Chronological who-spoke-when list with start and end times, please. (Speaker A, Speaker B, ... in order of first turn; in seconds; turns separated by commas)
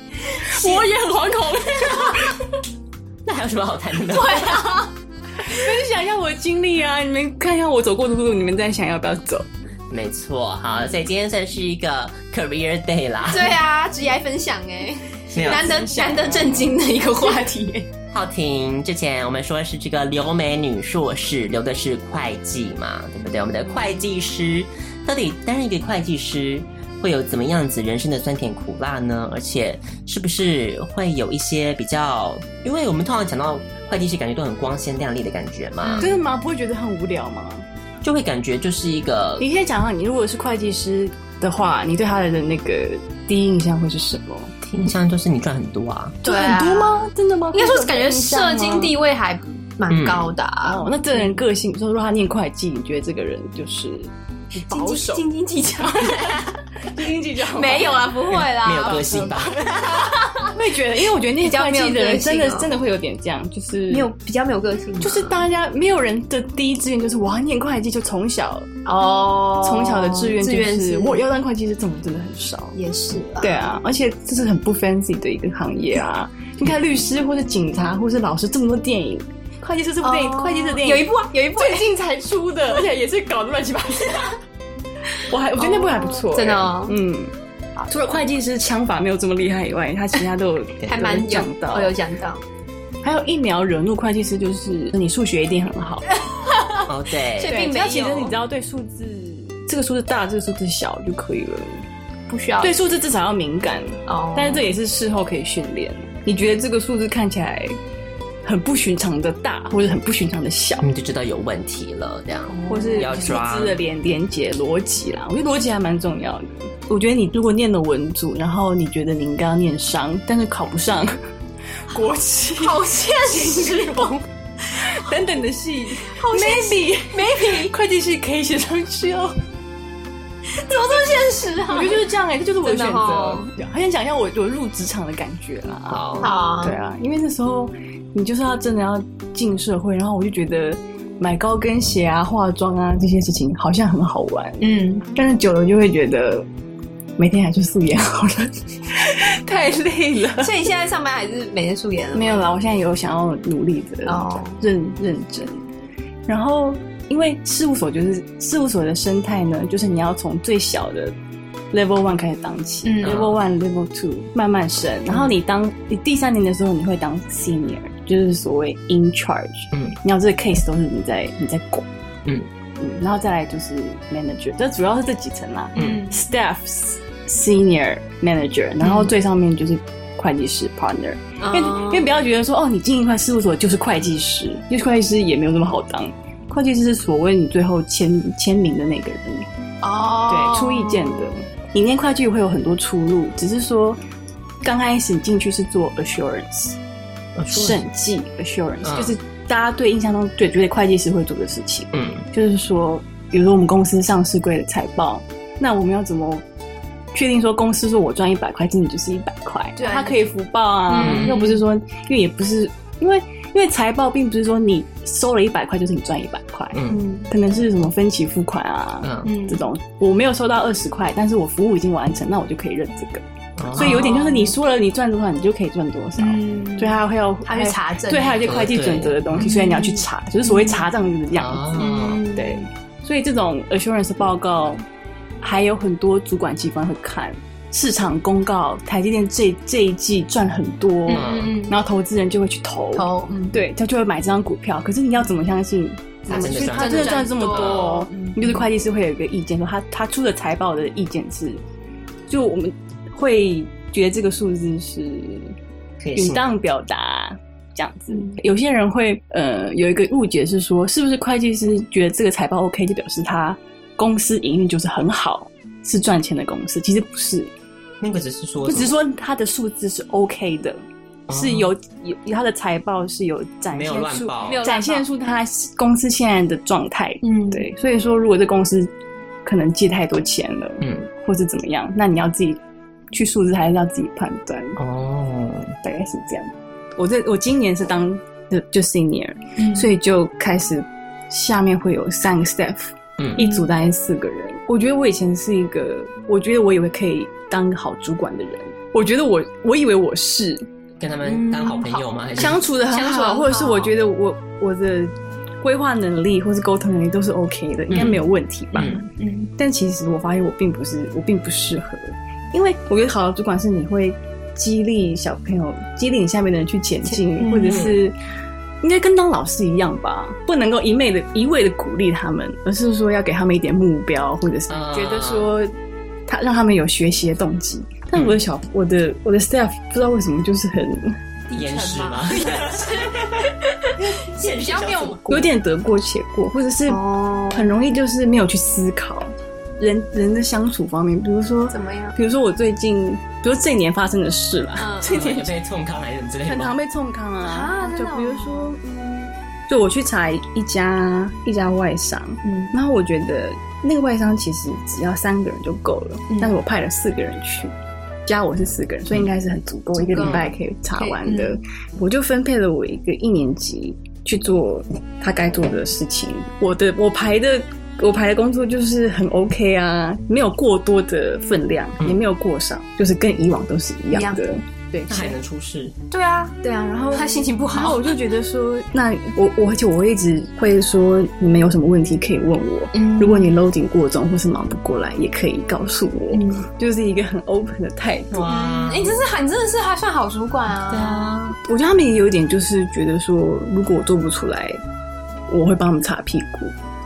Speaker A: 0.2-2.5, Speaker B: 0.6-0.8, Speaker C: 3.2-4.7, Speaker B: 4.1-4.9, Speaker A: 5.4-9.5, Speaker C: 9.9-13.6, Speaker B: 13.3-17.8, Speaker C: 15.3-16.7, Speaker A: 15.4-17.6, Speaker C: 18.1-36.0, Speaker B: 35.8-36.2, Speaker A: 36.0-37.7, Speaker C: 38.0-39.5, Speaker A: 39.4-44.5, Speaker C: 44.6-46.2, Speaker A: 46.2-48.9, Speaker B: 46.2-51.3, Speaker C: 49.9-50.3, Speaker A: 50.6-55.2, Speaker B: 54.7-56.4, Speaker A: 56.9-58.0, Speaker B: 57.5-60.5, Speaker C: 58.3-60.1, Speaker A: 58.9-59.5, Speaker A: 60.5-64.1, Speaker B: 61.4-62.7, Speaker B: 63.9-65.5, Speaker A: 65.0-68.7, Speaker B: 68.8-71.2, Speaker A: 69.6-72.8, Speaker B: 72.8-73.7, Speaker A: 73.4-84.3, Speaker B: 80.0-81.9, Speaker A: 85.3-87.3, Speaker B: 85.6-87.0, Speaker A: 87.9-91.9, Speaker B: 90.9-92.4, Speaker A: 93.0-96.1, Speaker B: 96.4-96.8, Speaker C: 96.9-97.6, Speaker B: 97.4-98.3, Speaker A: 97.5-101.8, Speaker B: 102.3-102.8, Speaker A: 102.6-107.8, Speaker B: 104.1-104.7, Speaker A: 108.4-110.8, Speaker C: 110.8-113.8, Speaker B: 112.5-113.4, Speaker A: 112.7-121.2, Speaker A: 121.9-124.2, Speaker B: 122.6-124.2, Speaker A: 124.8-129.4, Speaker B: 126.1-127.7, Speaker B: 130.5-132.1, Speaker A: 131.7-146.5, Speaker B: 132.6-133.5, Speaker C: 135.9-136.3, Speaker B: 136.2-136.8, Speaker B: 144.6-145.1, Speaker A: 147.2-150.5, Speaker B: 150.3-152.5, Speaker A: 152.1-155.7, Speaker B: 154.1-154.6, Speaker A: 156.3-161.2, Speaker A: 161.7-171.9, Speaker B: 162.8-163.3, Speaker C: 163.0-163.4, Speaker A: 172.8-189.5, Speaker B: 175.7-176.2, Speaker C: 175.8-176.0, Speaker B: 178.8-179.1, Speaker B: 181.4-182.1, Speaker B: 189.8-191.4, Speaker A: 190.3-194.0, Speaker A: 194.6-196.8, Speaker C: 197.3-197.8, Speaker A: 197.5-206.4, Speaker C: 198.8-199.1, Speaker C: 201.9-202.2, Speaker A: 207.1-234.8, Speaker B: 209.8-210.2, Speaker B: 210.9-211.6, Speaker C: 211.0-211.3, Speaker C: 216.7-217.0, Speaker B: 216.9-217.3, Speaker C: 219.0-219.3, Speaker B: 219.2-219.6, Speaker C: 223.6-224.2, Speaker B: 223.7-224.6, Speaker B: 226.2-228.7, Speaker C: 228.4-229.5, Speaker B: 229.4-230.8, Speaker C: 231.3-232.2, Speaker B: 231.8-232.6, Speaker A: 235.4-251.6, Speaker B: 241.1-241.8, Speaker C: 241.1-241.6, Speaker B: 242.9-243.6, Speaker C: 246.3-247.9, Speaker B: 246.3-248.7, Speaker A: 252.3-255.5, Speaker C: 256.0-256.4, Speaker A: 256.1-267.5, Speaker B: 258.1-258.4, Speaker C: 268.0-268.9, Speaker A: 268.6-278.9, Speaker C: 271.3-271.7, Speaker C: 273.7-274.6, Speaker B: 274.4-275.1, Speaker B: 277.2-277.6, Speaker A: 279.4-282.6, Speaker C: 280.8-281.1, Speaker A: 283.1-284.8, Speaker C: 284.8-285.8, Speaker A: 285.8-300.6, Speaker B: 289.6-289.9, Speaker C: 293.2-293.4, Speaker B: 293.4-293.7, Speaker C: 301.0-302.6, Speaker B: 301.2-302.0, Speaker A: 302.4-309.0, Speaker B: 302.8-303.9, Speaker C: 307.9-308.2, Speaker C: 308.7-309.0, Speaker B: 308.8-309.5, Speaker A: 309.6-318.1, Speaker B: 317.3-317.9, Speaker C: 317.7-317.9, Speaker A: 318.8-325.7, Speaker C: 324.7-325.5, Speaker A: 326.3-331.2, Speaker C: 328.1-328.4, Speaker B: 331.5-335.4, Speaker C: 331.5-335.2, Speaker A: 335.3-345.5, Speaker B: 336.9-337.8, Speaker B: 341.7-342.1, Speaker B: 344.8-345.3, Speaker C: 345.0-346.8, Speaker A: 346.4-348.9, Speaker B: 347.4-349.2, Speaker A: 349.7-357.7, Speaker B: 352.4-352.7, Speaker B: 356.3-356.6, Speaker A: 358.2-375.4, Speaker B: 360.0-360.4, Speaker C: 360.2-360.5, Speaker B: 361.0-361.6, Speaker B: 374.1-374.4, Speaker C: 375.1-375.9, Speaker B: 376.1-378.1, Speaker A: 376.8-388.4, Speaker B: 382.9-383.5, Speaker B: 386.3-386.6, Speaker C: 388.3-389.2, Speaker B: 388.4-391.4, Speaker C: 390.9-391.6, Speaker A: 391.6-394.8, Speaker A: 395.5-396.7